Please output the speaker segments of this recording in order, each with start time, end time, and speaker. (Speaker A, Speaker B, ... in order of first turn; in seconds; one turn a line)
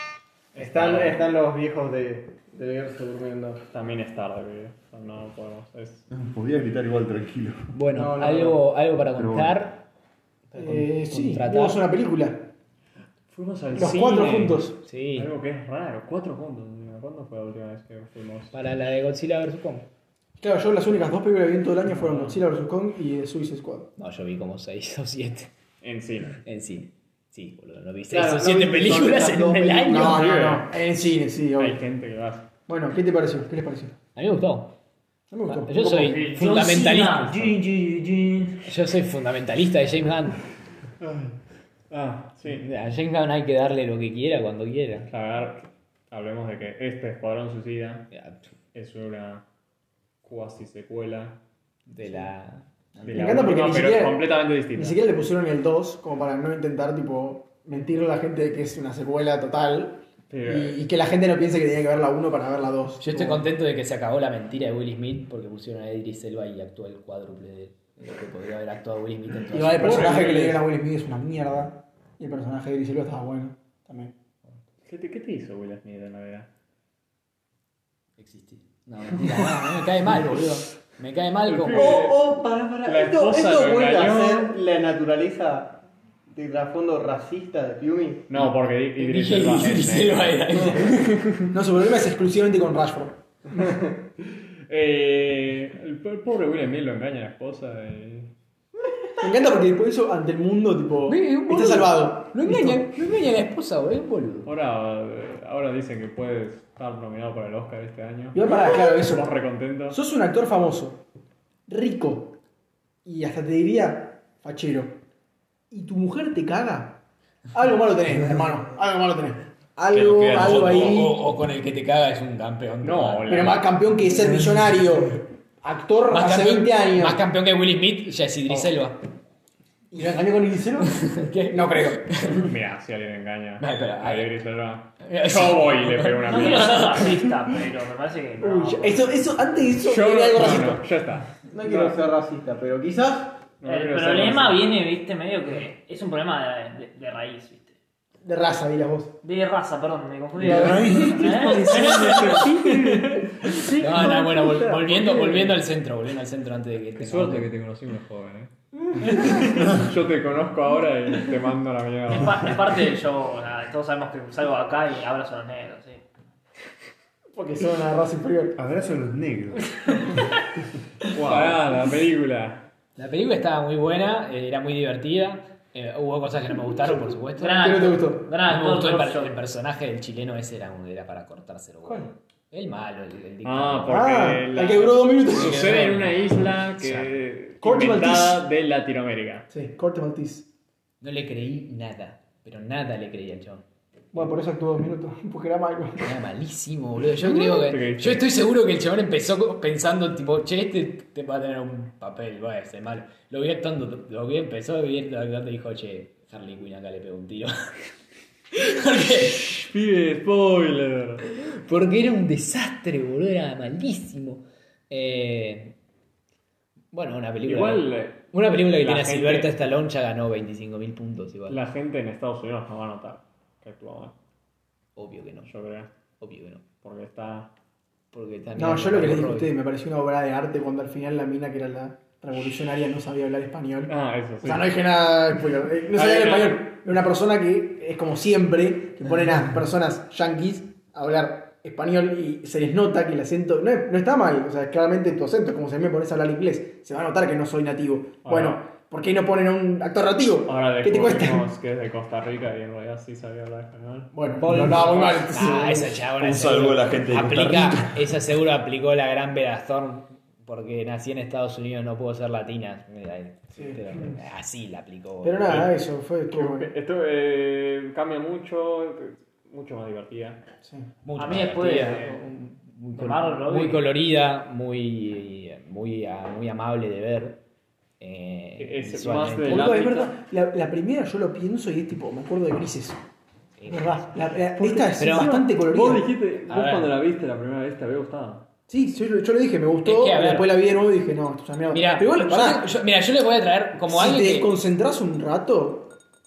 Speaker A: 0.5-1.3
Speaker B: 0.6-3.6
Speaker A: 3.7-6.0
Speaker C: 6.1-7.6
Speaker D: 7.7-9.9
Speaker E: 8.0-8.6
Speaker C: 9.2-9.6
Speaker D: 10.5-11.8
Speaker E: 10.6-12.5
Speaker A: 13.3-18.5
Speaker E: 13.7-14.8
Speaker D: 14.8-15.3
Speaker D: 18.5-19.9
Speaker E: 20.4-23.9
Speaker A: 21.9-22.4
Speaker D: 24.0-25.5
Speaker A: 25.8-26.4
Speaker D: 26.4-30.3
Speaker B: 28.1-30.0
Speaker E: 29.9-31.8
Speaker A: 30.0-30.8
Speaker A: 31.6-32.5
Speaker E: 32.7-34.0
Speaker D: 34.1-34.7
Speaker E: 35.3-36.0
Speaker D: 35.5-37.6
Speaker F: 35.7-38.7
Speaker D: 38.6-40.4
Speaker A: 41.0-41.4
Speaker A: 41.9-42.6
Speaker D: 42.5-45.1
Speaker A: 45.1-48.1
Speaker D: 48.1-48.6
Speaker A: 48.7-49.5
Speaker A: 50.2-51.4
Speaker D: 51.9-53.5
Speaker A: 53.0-55.0
Speaker E: 53.1-63.5
Speaker A: 60.3-60.8
Speaker D: 63.0-70.2
Speaker E: 69.5-74.1
Speaker A: 69.8-70.6
Speaker A: 74.8-76.5
Speaker D: 78.2-82.0
Speaker A: 81.5-82.3
Speaker B: 81.7-88.3
Speaker A: 82.8-84.6
Speaker A: 88.3-91.5
Speaker D: 88.3-91.0
Speaker E: 91.5-93.9
Speaker A: 94.7-98.3
Speaker E: 99.2-103.0
Speaker D: 101.1-104.5
Speaker A: 104.5-110.0
Speaker E: 108.3-109.3
Speaker E: 109.9-111.0
Speaker E: 111.7-112.4
Speaker E: 113.0-115.0
Speaker E: 115.7-121.1
Speaker A: 119.9-121.1
Speaker D: 120.3-123.6
Speaker A: 122.8-123.7
Speaker E: 123.3-127.2
Speaker D: 126.1-129.0
Speaker A: 128.5-128.8
Speaker E: 129.9-132.0
Speaker D: 131.0-132.5
Speaker A: 132.4-137.2
Speaker D: 133.6-134.3
Speaker D: 135.0-137.3
Speaker F: 136.3-139.1
Speaker E: 138.4-140.9
Speaker A: 139.8-141.4
Speaker B: 141.5-143.4
Speaker E: 141.6-141.9
Speaker A: 143.6-144.7
Speaker F: 143.6-147.8
Speaker E: 148.2-149.2
Speaker F: 149.2-152.5
Speaker E: 150.4-152.6
Speaker D: 150.7-151.5
Speaker A: 151.6-154.2
Speaker B: 151.6-152.6
Speaker D: 153.8-157.5
Speaker B: 153.8-155.1
Speaker A: 156.9-162.6
Speaker F: 162.1-166.0
Speaker E: 167.3-168.6
Speaker C: 168.6-170.2
Speaker A: 171.1-172.7
Speaker C: 171.3-171.6
Speaker D: 173.0-177.9
Speaker F: 177.4-179.3
Speaker E: 177.6-178.3
Speaker D: 178.5-184.2
Speaker E: 181.8-182.1
Speaker A: 183.4-189.5
Speaker E: 183.9-185.8
Speaker D: 185.3-187.1
Speaker E: 187.6-188.5
Speaker E: 189.5-190.5
Speaker D: 191.0-193.6
Speaker E: 194.1-196.2
Speaker D: 196.0-207.5
Speaker A: 197.1-198.3
Speaker D: 208.5-209.6
Speaker A: 209.3-211.2
Speaker D: 211.3-215.8
Speaker D: 216.9-221.6
Speaker A: 217.4-219.5
Speaker A: 221.5-224.2
Speaker D: 225.0-225.5
Speaker A: 225.4-225.9
Speaker D: 226.2-226.6
Speaker A: 226.8-227.5
Speaker D: 228.1-229.6
Speaker E: 228.6-251.5
Speaker A: 233.9-234.7
Speaker A: 235.9-236.6
Speaker A: 248.2-248.6
Speaker A: 250.4-255.7
Speaker E: 254.1-256.0
Speaker D: 255.3-265.6
Speaker C: 256.0-258.1
Speaker E: 263.6-263.8
Speaker E: 265.2-266.7
Speaker A: 266.3-270.4
Speaker D: 271.1-277.4
Speaker F: 271.2-272.2
Speaker F: 272.9-273.9
Speaker D: 278.0-279.8
Speaker A: 278.6-280.1
Speaker E: 279.4-283.0
Speaker D: 283.6-283.9
Speaker E: 283.7-286.1
Speaker A: 284.4-288.5
Speaker D: 285.0-285.4
Speaker D: 286.5-286.9
Speaker E: 288.7-292.7
Speaker D: 289.8-290.5
Speaker D: 291.7-294.5
Speaker E: 293.8-296.0